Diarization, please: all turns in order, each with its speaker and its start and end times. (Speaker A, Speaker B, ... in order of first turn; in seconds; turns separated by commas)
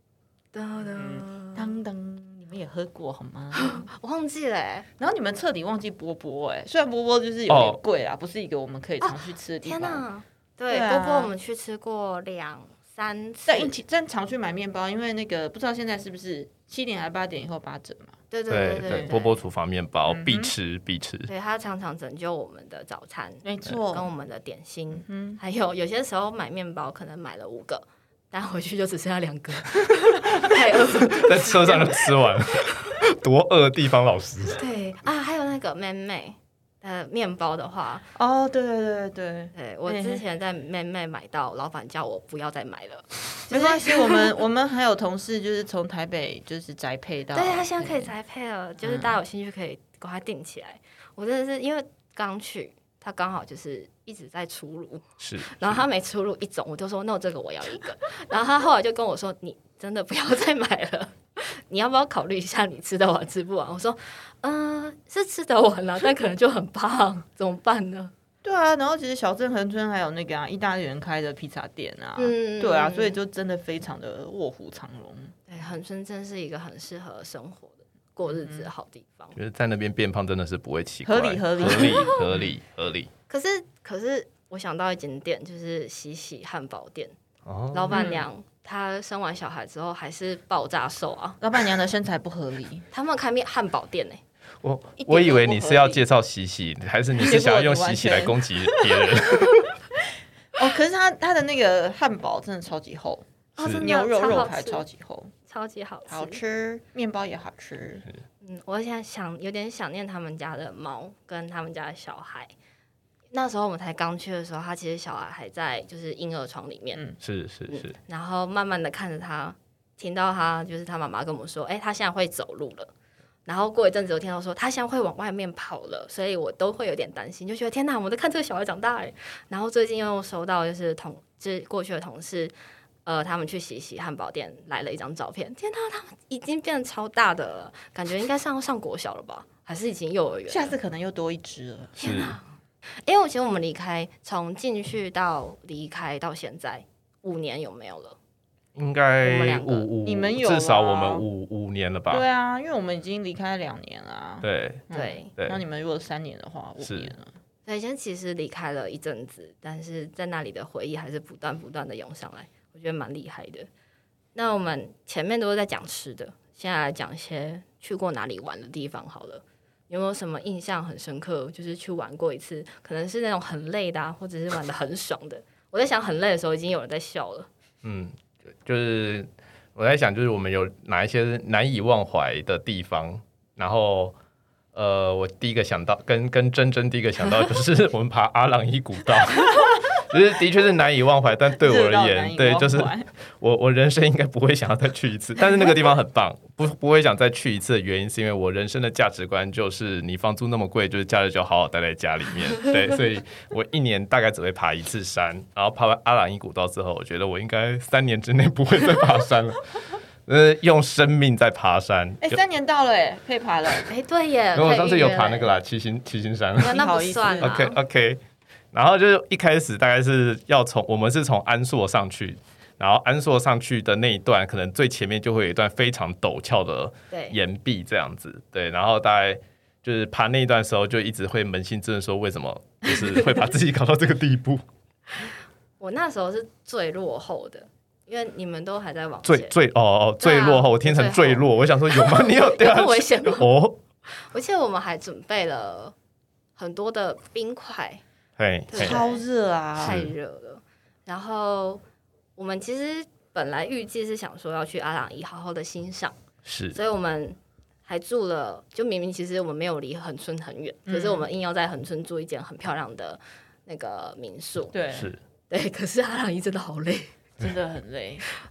Speaker A: 0.5-1.8, Speaker B: 0.8-3.9, Speaker A: 3.5-4.9, Speaker B: 5.0-10.1, Speaker C: 7.5-7.8, Speaker A: 9.0-13.8, Speaker B: 10.7-11.3, Speaker B: 13.5-18.2, Speaker A: 18.3-19.4, Speaker C: 18.5-21.3, Speaker B: 18.8-19.1, Speaker B: 20.1-20.5, Speaker A: 21.3-32.0, Speaker B: 23.4-24.1, Speaker B: 25.1-25.4, Speaker C: 31.0-34.6, Speaker A: 34.5-38.1, Speaker B: 38.1-40.2, Speaker A: 39.5-44.3, Speaker B: 43.5-48.1, Speaker A: 47.3-68.1, Speaker B: 48.8-49.2, Speaker C: 55.2-55.8, Speaker B: 68.4-75.4, Speaker A: 72.2-73.2, Speaker A: 75.5-79.3, Speaker B: 78.3-78.7, Speaker C: 79.3-83.1, Speaker B: 81.0-82.5, Speaker A: 81.7-82.2, Speaker A: 83.3-87.2, Speaker C: 87.5-88.0, Speaker A: 87.7-91.4, Speaker B: 87.9-88.3, Speaker B: 91.4-92.9, Speaker A: 92.9-94.2, Speaker C: 94.6-99.7, Speaker B: 95.0-96.0, Speaker B: 97.2-99.6, Speaker B: 100.6-105.3, Speaker A: 103.6-104.8, Speaker C: 103.6-103.9, Speaker A: 105.5-106.4, Speaker B: 106.1-108.1, Speaker A: 108.4-112.5, Speaker A: 113.3-117.0, Speaker C: 117.2-117.9, Speaker A: 117.7-122.9, Speaker A: 123.5-132.5, Speaker A: 133.1-140.7, Speaker B: 140.5-142.0, Speaker A: 142.0-142.5, Speaker C: 142.0-142.4, Speaker A: 143.0-148.2, Speaker C: 148.8-152.3, Speaker A: 149.2-149.9, Speaker B: 150.0-151.3, Speaker B: 152.1-157.3, Speaker C: 154.4-154.8, Speaker A: 154.9-155.3, Speaker C: 155.4-155.6, Speaker C: 156.8-157.1, Speaker A: 157.7-163.7, Speaker A: 164.3-177.5, Speaker C: 177.8-184.2, Speaker C: 184.7-212.4, Speaker B: 191.6-193.1, Speaker B: 212.2-213.9, Speaker A: 213.9-215.6, Speaker C: 214.5-216.8, Speaker B: 216.6-217.6, Speaker A: 216.6-217.8, Speaker C: 217.4-218.2, Speaker C: 218.7-234.6, Speaker A: 227.1-227.4, Speaker A: 235.2-239.6, Speaker C: 239.2-243.8, Speaker A: 240.2-243.5, Speaker A: 244.1-245.9, Speaker A: 246.6-248.0, Speaker C: 248.4-249.0, Speaker A: 248.7-249.2, Speaker B: 248.8-250.0, Speaker C: 249.8-250.1, Speaker A: 249.8-251.8, Speaker A: 252.4-256.2, Speaker C: 256.4-256.8, Speaker A: 256.7-264.8, Speaker B: 260.9-261.3, Speaker B: 264.7-265.1, Speaker C: 264.9-265.2, Speaker A: 265.5-267.2, Speaker B: 267.4-268.2